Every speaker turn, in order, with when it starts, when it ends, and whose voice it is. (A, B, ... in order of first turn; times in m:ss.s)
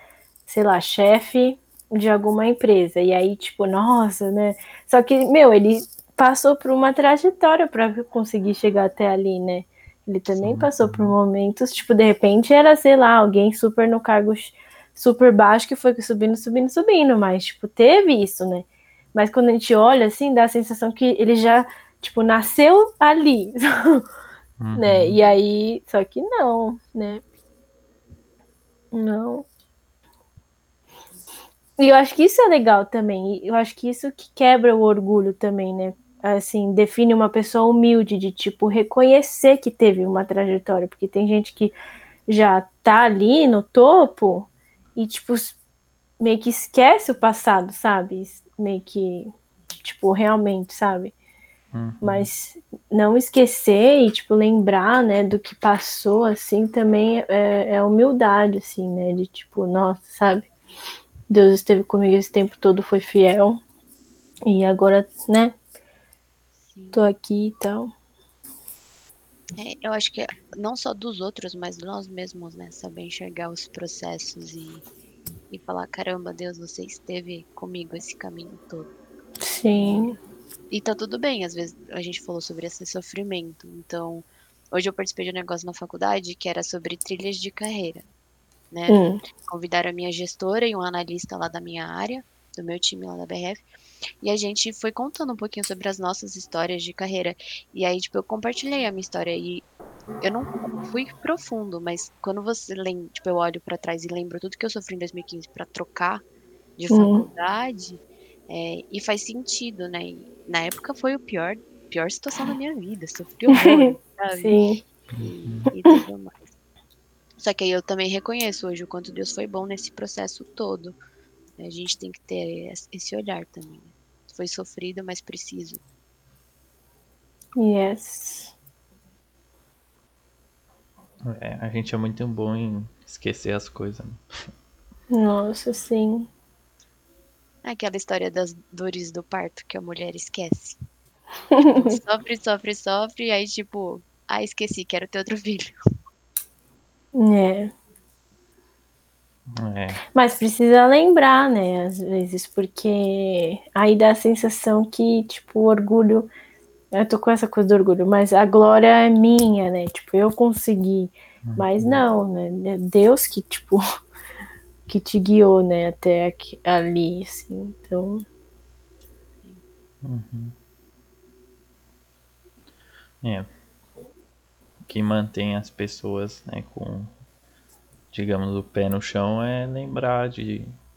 0:00.5-0:24.0 A
0:10.4-0:11.2 B
0:24.6-0:25.2 B
0:24.8-0:27.2 A
0:28.9-0:29.5 A
0:31.8-0:41.8 A
0:42.3-0:45.6 A
0:46.2-0:51.1 A
0:51.7-0:52.3 B
0:52.0-1:00.5 A
1:01.3-1:03.6 A
1:04.5-1:05.6 A
1:06.7-1:07.1 C
1:06.9-1:07.9 A
1:09.6-1:14.8 C
1:15.5-1:18.9 C
1:19.4-1:20.2 A
1:20.7-1:28.1 C
1:28.7-1:33.6 C
1:28.9-1:29.2 A
1:34.2-1:39.7 C
1:40.2-1:46.2 C
1:46.8-1:54.6 C
1:46.9-1:47.2 A
1:53.5-1:54.8 A
1:55.1-1:55.7 B
1:55.2-1:56.5 C
1:57.4-2:01.0 C
2:01.6-2:05.8 C
2:07.6-2:08.5 A
2:11.2-2:14.4 B
2:15.1-2:16.3 A
2:17.6-2:20.8 C
2:21.5-2:22.0 A
2:21.7-2:25.7 C
2:27.1-2:27.7 A
2:29.6-2:30.0 B
2:30.1-2:36.3 A
2:36.9-2:43.8 A
2:41.4-2:42.0 B
2:44.9-2:48.2 A
2:50.0-2:50.5 B
2:53.2-2:53.5 B
2:54.8-2:57.1 B
2:58.1-3:00.7 B